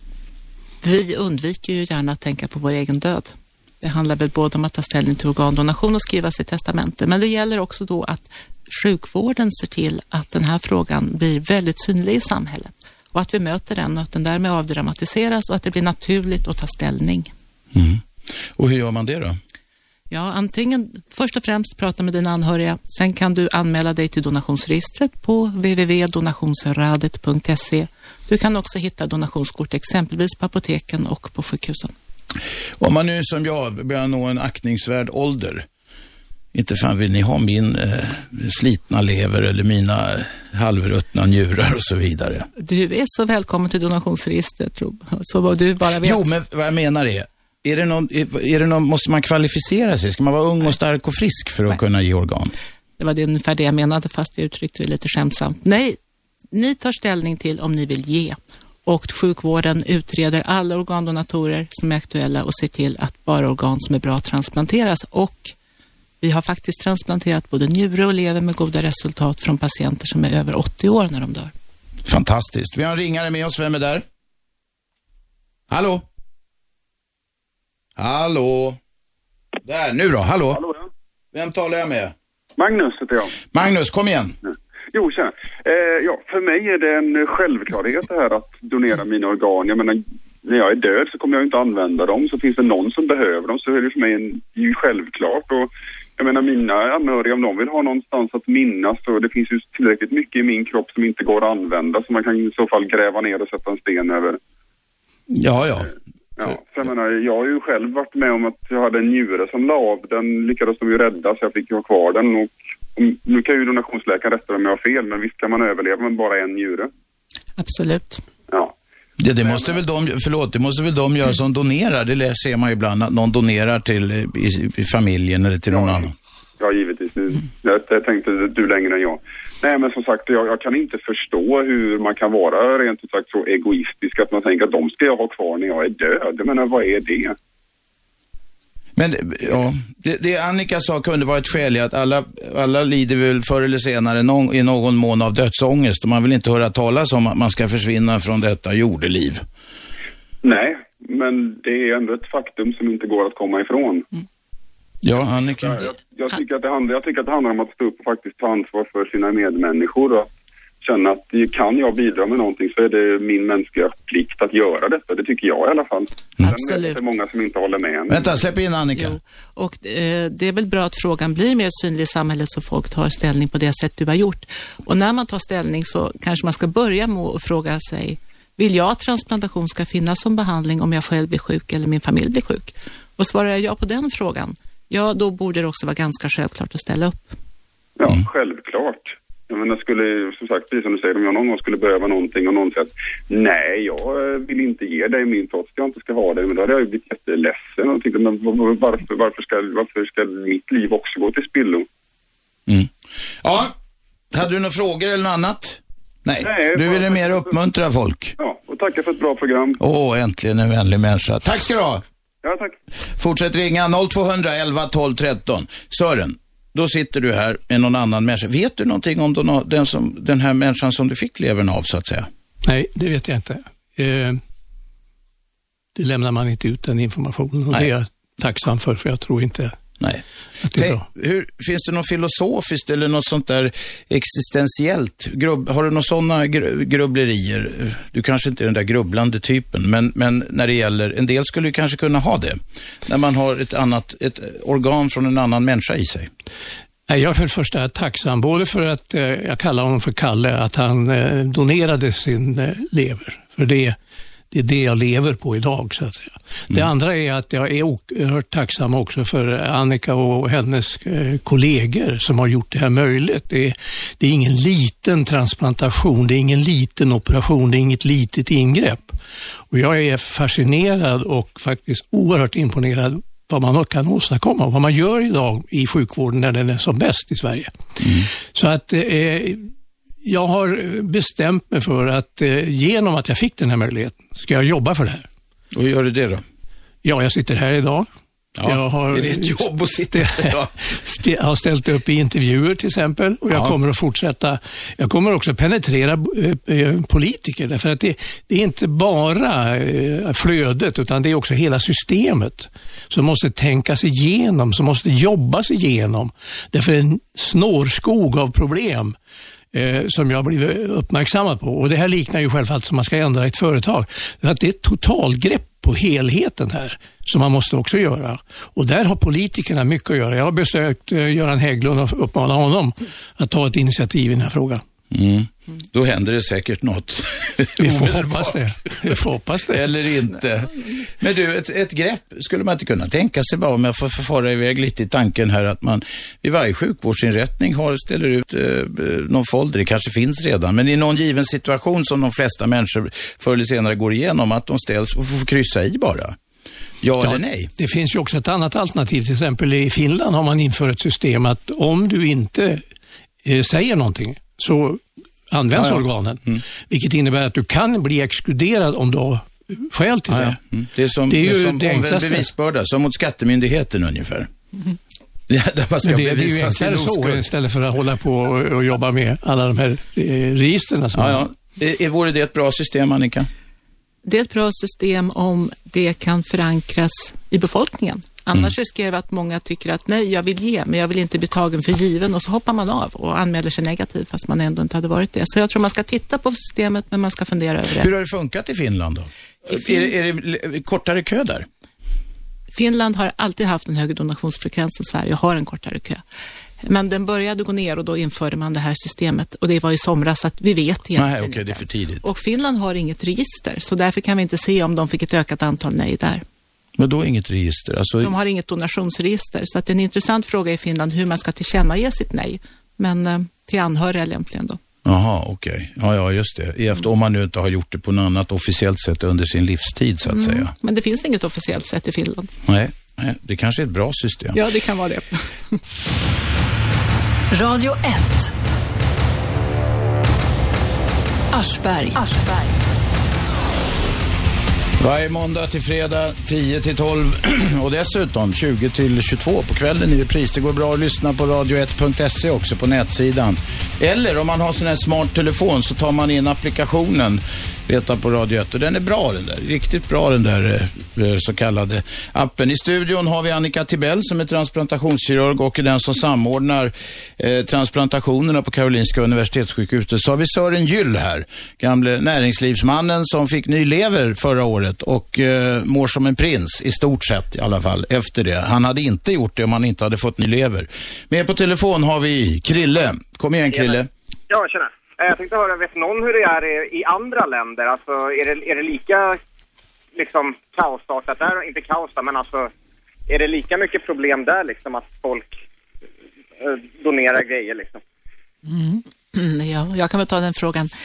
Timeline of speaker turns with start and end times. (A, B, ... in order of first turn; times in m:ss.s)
0:00.8-0:17.3 A
0:17.7-0:18.0 B
0:18.6-0:19.4 B
0:20.1-0:31.9 A
0:32.8-0:35.6 B
0:36.5-0:42.5 B
0:42.6-0:46.3 A
0:46.0-0:52.5 B
0:53.0-0:56.0 A
0:56.5-1:05.5 A
1:06.2-1:11.5 A
1:12.0-1:14.0 B
1:15.7-1:16.0 B
1:18.0-1:18.8 B
1:19.6-1:20.6 B
1:21.3-1:22.1 B
1:22.6-1:23.4 C
1:23.5-1:24.4 B
1:24.9-1:44.4 C
1:45.3-1:45.9 B
1:46.4-1:56.9 C
1:57.6-1:58.2 A
1:59.2-2:06.1 B
1:59.4-1:59.8 C
2:05.7-2:06.0 C
2:06.6-2:17.4 C
2:19.0-2:29.4 B
2:30.4-2:34.1 C
2:35.0-2:35.9 B
2:35.6-2:40.3 C
2:40.8-2:48.3 C
2:46.4-2:47.0 A
2:48.1-2:49.2 B
2:49.0-3:07.3 A
3:08.0-3:21.8 C
3:22.7-3:23.7 B
3:24.3-3:28.3 B
3:26.4-3:27.4 C
3:28.4-3:29.8 C
3:29.8-3:32.0 B
3:32.4-3:32.7 C
3:33.2-3:42.3 B
3:42.6-3:44.4 D
3:46.0-3:49.8 D
3:50.0-4:06.3 B
3:50.7-3:51.0 D
4:07.1-4:14.0 D
4:14.5-4:29.2 D
4:29.7-4:38.0 D
4:38.0-4:38.3 B
4:38.5-4:39.7 D
4:40.2-4:45.2 D
4:45.7-4:46.4 B
4:47.0-4:48.1 D
4:48.6-4:50.7 B
4:48.6-5:09.2 D
4:53.5-4:53.8 B
5:09.7-5:24.8 D
5:25.1-5:29.1 B
5:27.8-5:29.8 D
5:29.7-5:46.4 B
5:47.0-5:47.7 B
5:47.2-5:52.8 D
5:53.4-6:00.6 D
5:55.7-5:56.6 B
6:00.3-6:04.5 B
6:01.3-6:02.5 D
6:05.5-6:07.5 B
6:06.0-6:11.4 D
6:11.1-6:13.5 B
6:14.2-6:28.1 A
6:28.0-6:31.7 B
6:32.7-6:36.2 A
6:36.8-6:46.4 A
6:41.2-6:42.2 B
6:47.0-6:48.3 B
6:48.2-6:54.8 A
6:55.0-7:00.7 B
7:00.3-7:02.5 A
7:02.6-7:04.6 B
7:04.5-7:05.8 A
7:07.5-7:08.5 E
7:11.5-7:13.0 E
7:15.0-7:54.1 B
7:53.7-7:54.0 F
7:54.5-7:59.4 F
8:00.2-8:02.7 F
8:03.3-8:05.6 F
8:06.6-8:08.0 F
8:08.6-8:10.9 A